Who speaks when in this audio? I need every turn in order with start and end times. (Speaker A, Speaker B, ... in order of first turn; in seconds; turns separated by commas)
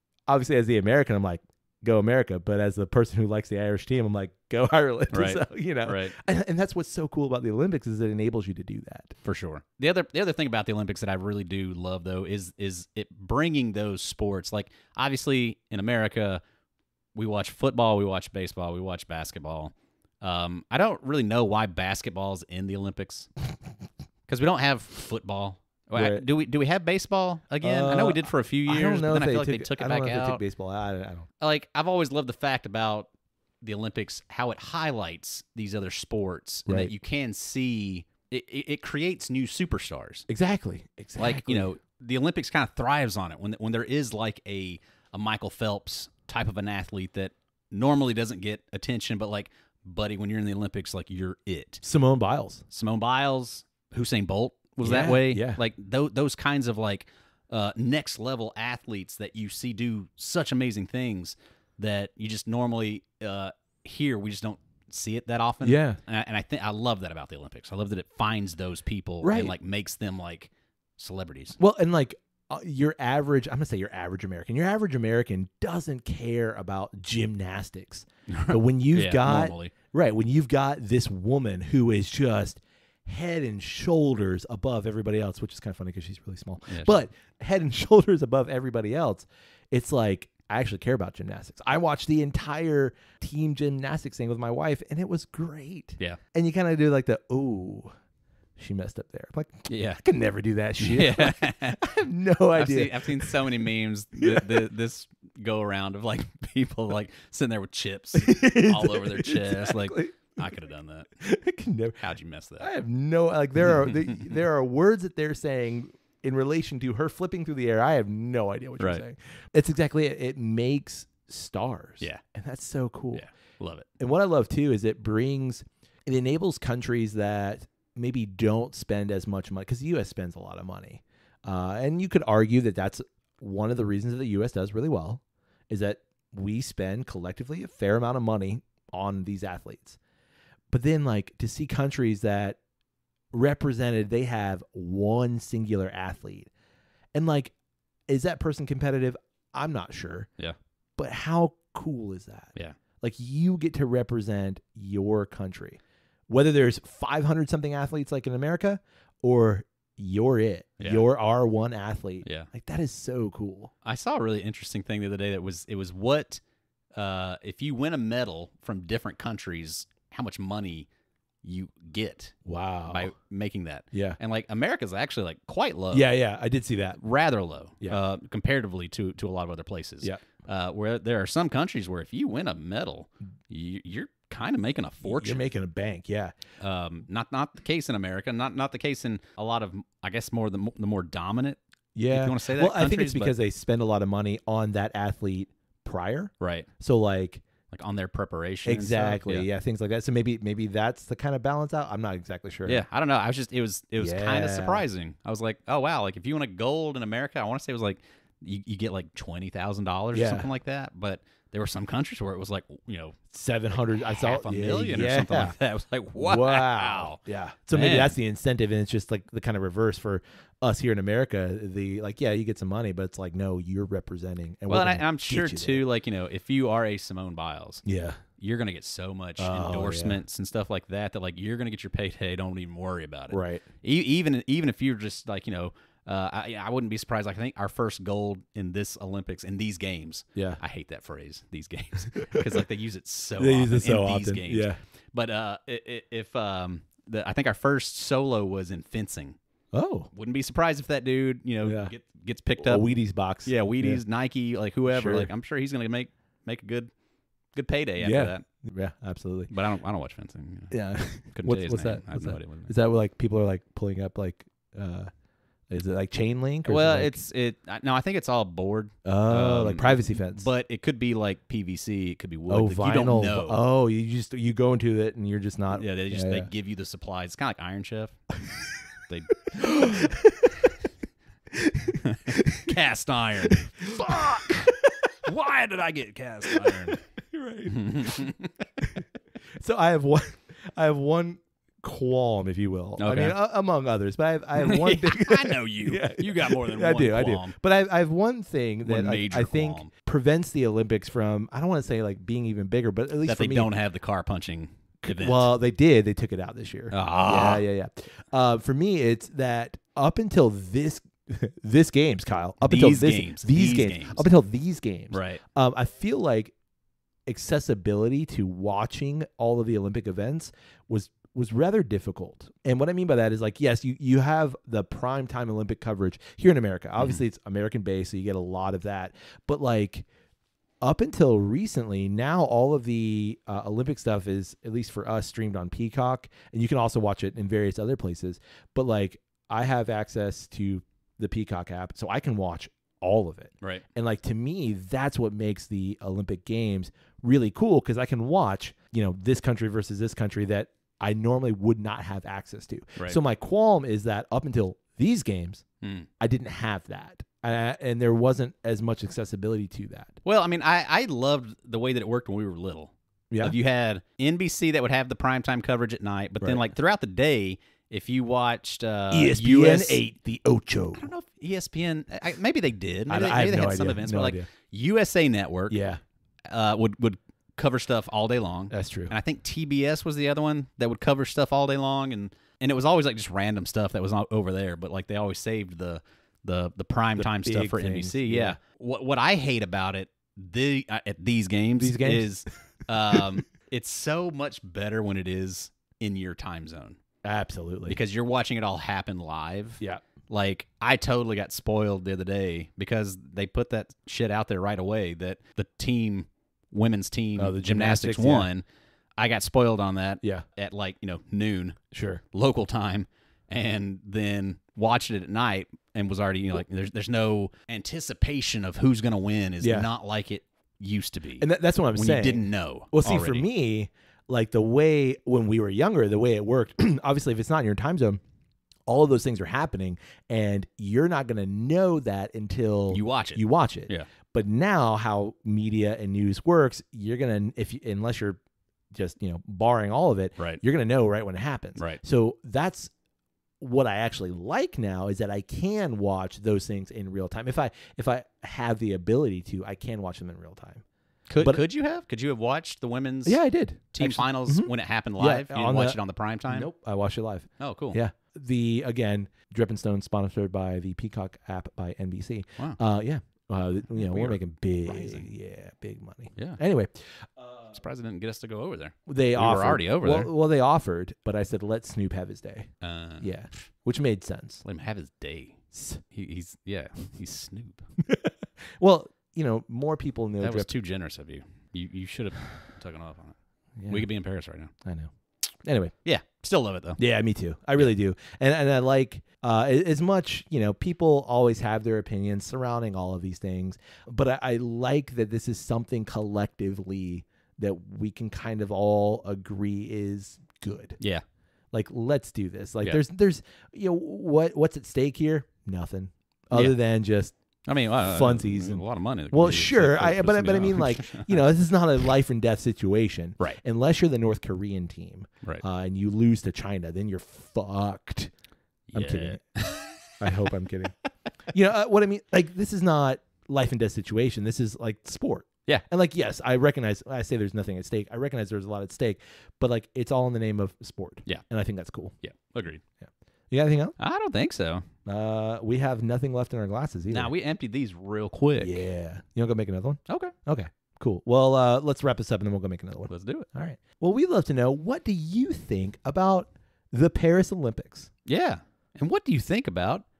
Speaker A: 0.3-9.2, Speaker B: 5.1-6.2, Speaker B: 9.2-16.4, Speaker B: 17.1-23.3, Speaker B: 24.3-30.4, Speaker A: 25.9-26.2, Speaker A: 27.6-31.3, Speaker B: 31.4-33.1, Speaker B: 33.6-40.3, Speaker A: 40.3-41.7, Speaker B: 41.2-51.8, Speaker A: 51.8-52.6, Speaker B: 52.7-71.6, Speaker A: 54.8-55.6, Speaker A: 65.6-66.0, Speaker A: 69.2-69.5, Speaker A: 71.6-97.9, Speaker B: 78.3-79.7, Speaker B: 86.7-86.9, Speaker A: 98.6-103.4, Speaker B: 99.7-100.0, Speaker B: 100.8-101.9, Speaker B: 102.5-111.1, Speaker A: 104.2-104.7, Speaker A: 108.2-110.5, Speaker A: 111.2-112.0, Speaker B: 112.0-112.7, Speaker A: 112.6-123.2, Speaker B: 113.7-114.4, Speaker B: 123.1-123.9, Speaker A: 124.0-140.0, Speaker A: 140.7-142.6, Speaker A: 143.3-146.5, Speaker A: 147.1-147.5, Speaker A: 148.1-150.3, Speaker A: 151.0-163.7, Speaker B: 160.8-161.1, Speaker B: 162.2-162.5, Speaker B: 163.8-166.4, Speaker B: 166.9-170.9, Speaker B: 171.4-172.3, Speaker A: 172.4-173.1, Speaker B: 172.9-176.1, Speaker A: 173.9-174.2, Speaker A: 175.9-177.0, Speaker B: 177.0-185.5, Speaker A: 185.0-186.3, Speaker B: 186.6-193.3, Speaker A: 191.9-197.4, Speaker B: 196.4-196.7, Speaker B: 197.7-199.5, Speaker A: 198.7-202.8, Speaker B: 202.7-213.2, Speaker A: 204.0-204.8, Speaker A: 210.1-210.5, Speaker A: 213.3-215.6, Speaker B: 214.2-217.2, Speaker A: 216.2-225.8, Speaker B: 217.7-218.2, Speaker B: 224.7-227.8, Speaker A: 227.8-228.2, Speaker B: 228.4-249.4, Speaker A: 229.4-230.2, Speaker A: 233.3-233.7, Speaker A: 240.3-240.6, Speaker A: 242.3-242.6, Speaker A: 243.4-244.8, Speaker A: 249.7-250.1, Speaker B: 250.1-256.9, Speaker A: 251.6-251.9, Speaker A: 252.6-254.0, Speaker A: 254.9-255.3, Speaker B: 257.5-258.5, Speaker A: 258.0-259.5, Speaker B: 259.5-260.8, Speaker A: 260.7-265.1, Speaker B: 261.3-262.7, Speaker A: 265.7-267.2, Speaker B: 266.7-273.6, Speaker A: 269.1-270.5, Speaker A: 272.5-276.5, Speaker B: 275.7-278.2, Speaker B: 279.1-279.4, Speaker A: 279.5-280.7, Speaker A: 281.5-282.7, Speaker B: 282.0-287.0, Speaker A: 283.5-285.1, Speaker A: 286.5-289.1, Speaker B: 287.7-288.5, Speaker A: 289.6-303.7, Speaker B: 293.0-293.4, Speaker B: 294.6-297.6, Speaker B: 298.9-299.9, Speaker B: 303.2-305.5, Speaker A: 305.0-316.5, Speaker B: 306.9-307.7, Speaker B: 312.6-314.3, Speaker B: 315.1-315.4, Speaker A: 317.3-330.1, Speaker A: 330.8-355.6, Speaker B: 355.8-356.1, Speaker A: 356.2-360.2, Speaker B: 360.2-370.0, Speaker A: 369.1-371.1, Speaker B: 370.9-375.8, Speaker A: 373.1-374.5, Speaker A: 375.7-376.0, Speaker B: 376.5-397.0, Speaker A: 378.7-379.1, Speaker A: 387.2-388.6, Speaker A: 391.8-392.3, Speaker A: 397.2-398.0, Speaker B: 397.9-408.6, Speaker A: 407.4-408.5, Speaker B: 409.2-411.8, Speaker A: 411.9-412.2, Speaker B: 412.3-423.5, Speaker A: 419.6-419.9, Speaker A: 421.4-428.2, Speaker A: 428.9-438.4, Speaker B: 432.9-434.1, Speaker A: 438.9-442.9, Speaker A: 443.6-450.8, Speaker B: 451.3-453.4, Speaker A: 453.2-467.7, Speaker B: 453.9-456.7, Speaker B: 457.6-458.0, Speaker B: 463.9-465.3, Speaker B: 466.4-466.6, Speaker B: 467.7-470.3, Speaker A: 469.1-474.6, Speaker B: 472.8-473.6, Speaker B: 474.6-477.9, Speaker A: 475.7-476.0, Speaker A: 478.1-480.7, Speaker B: 480.4-483.4, Speaker A: 483.8-484.1, Speaker B: 483.9-484.7, Speaker A: 484.8-485.1, Speaker A: 485.6-485.9, Speaker B: 486.1-487.0, Speaker A: 487.0-501.0, Speaker A: 501.7-507.4, Speaker B: 507.7-511.4, Speaker A: 508.0-518.3, Speaker B: 518.9-520.5, Speaker A: 519.0-519.6, Speaker A: 520.2-520.9, Speaker A: 521.5-532.1, Speaker B: 532.2-532.8, Speaker A: 533.0-534.0, Speaker B: 534.0-534.9, Speaker A: 535.1-537.3, Speaker B: 537.1-538.8, Speaker A: 538.6-548.1, Speaker B: 540.1-540.3, Speaker B: 543.1-543.5, Speaker B: 548.3-550.0